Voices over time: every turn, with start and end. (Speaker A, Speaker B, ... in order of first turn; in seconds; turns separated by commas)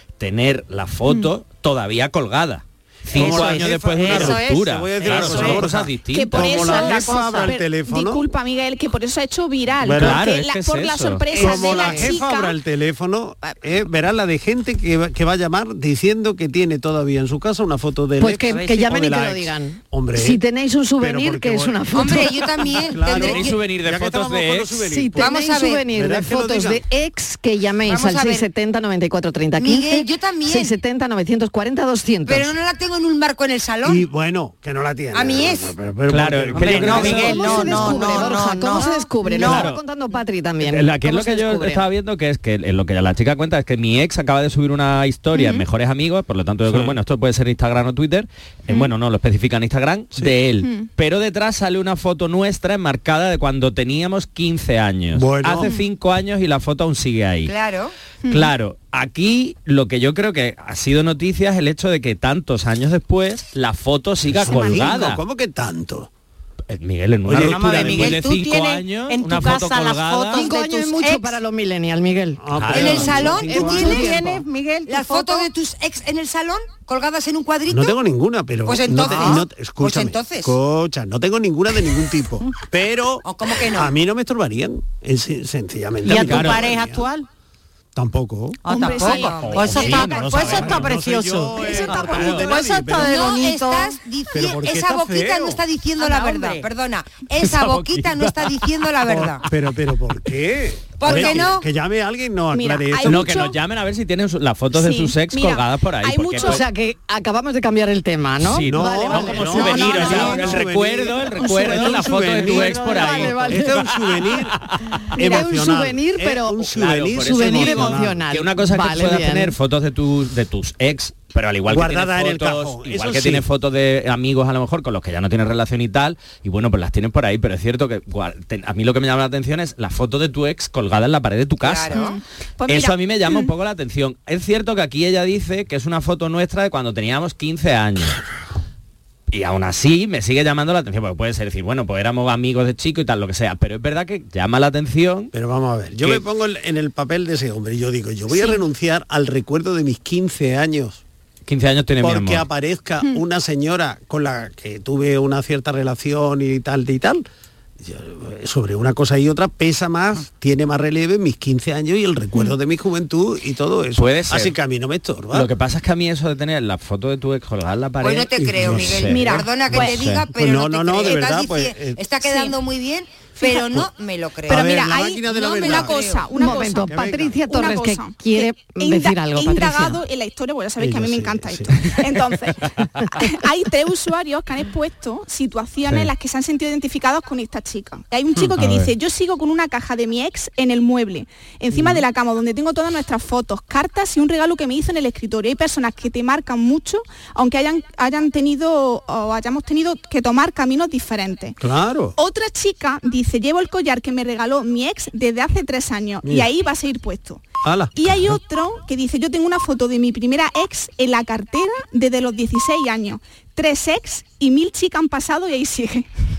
Speaker A: 0.2-6.9, Speaker B: 3.1-8.3, Speaker C: 3.1-5.7, Speaker D: 4.1-4.4, Speaker E: 6.1-12.6, Speaker C: 6.9-7.3, Speaker B: 9.8-10.2, Speaker A: 9.9-11.4, Speaker B: 11.3-20.4, Speaker F: 11.5-12.1, Speaker F: 18.2-22.3, Speaker C: 18.5-19.0, Speaker B: 21.0-26.8, Speaker D: 21.9-23.6, Speaker A: 23.1-24.8, Speaker F: 24.9-32.5, Speaker D: 25.2-25.8, Speaker D: 27.9-28.5, Speaker D: 29.6-30.8, Speaker D: 32.3-34.0, Speaker B: 33.8-38.3, Speaker D: 35.1-35.7, Speaker A: 36.1-37.9, Speaker C: 36.5-39.7, Speaker F: 37.0-41.9, Speaker A: 39.4-39.8, Speaker A: 40.6-57.5, Speaker E: 45.3-45.6, Speaker B: 46.7-47.0, Speaker B: 55.1-55.7, Speaker D: 57.4-58.0, Speaker E: 58.2-58.5, Speaker A: 58.3-65.2, Speaker B: 64.3-66.1, Speaker E: 64.5-64.9, Speaker A: 66.7-70.5, Speaker B: 67.3-68.2, Speaker C: 67.3-71.3, Speaker F: 70.3-74.4, Speaker B: 72.4-74.3, Speaker A: 72.6-73.1, Speaker D: 72.7-74.2, Speaker C: 73.7-75.5, Speaker D: 74.9-78.0, Speaker B: 77.7-87.0, Speaker D: 78.7-80.5, Speaker D: 83.2-83.9, Speaker C: 86.0-87.3, Speaker A: 86.1-86.7, Speaker B: 88.0-88.6, Speaker C: 88.6-94.0, Speaker E: 88.7-89.5, Speaker D: 88.8-90.7, Speaker A: 89.0-90.9, Speaker B: 89.7-93.3, Speaker E: 91.6-92.2, Speaker A: 92.0-92.5, Speaker D: 93.0-99.5, Speaker B: 94.3-95.6, Speaker C: 96.0-96.7, Speaker A: 97.4-98.3, Speaker B: 99.0-103.4, Speaker D: 101.0-101.7, Speaker E: 102.5-103.6, Speaker A: 103.0-106.6, Speaker E: 104.7-106.6, Speaker F: 106.4-110.3, Speaker A: 108.4-113.8, Speaker B: 108.7-114.6, Speaker F: 111.6-113.8, Speaker B: 115.1-118.2, Speaker F: 115.2-119.5, Speaker A: 116.7-132.0, Speaker B: 121.7-123.5, Speaker D: 131.6-132.2, Speaker E: 131.9-133.5, Speaker A: 132.7-138.2, Speaker A: 139.3-145.3, Speaker B: 145.3-151.0, Speaker E: 148.3-148.6, Speaker A: 151.5-152.5, Speaker B: 152.0-157.2, Speaker B: 157.8-165.5, Speaker A: 164.0-164.6, Speaker A: 165.3-170.2, Speaker D: 168.0-176.2, Speaker B: 168.4-172.0, Speaker E: 172.3-172.5, Speaker B: 173.5-173.9, Speaker B: 174.5-176.1, Speaker E: 174.5-201.6, Speaker F: 176.3-180.0, Speaker B: 176.9-177.4, Speaker B: 180.8-181.9, Speaker A: 188.4-188.9, Speaker B: 191.7-192.0, Speaker B: 201.6-202.2, Speaker E: 202.2-216.1, Speaker B: 207.6-208.4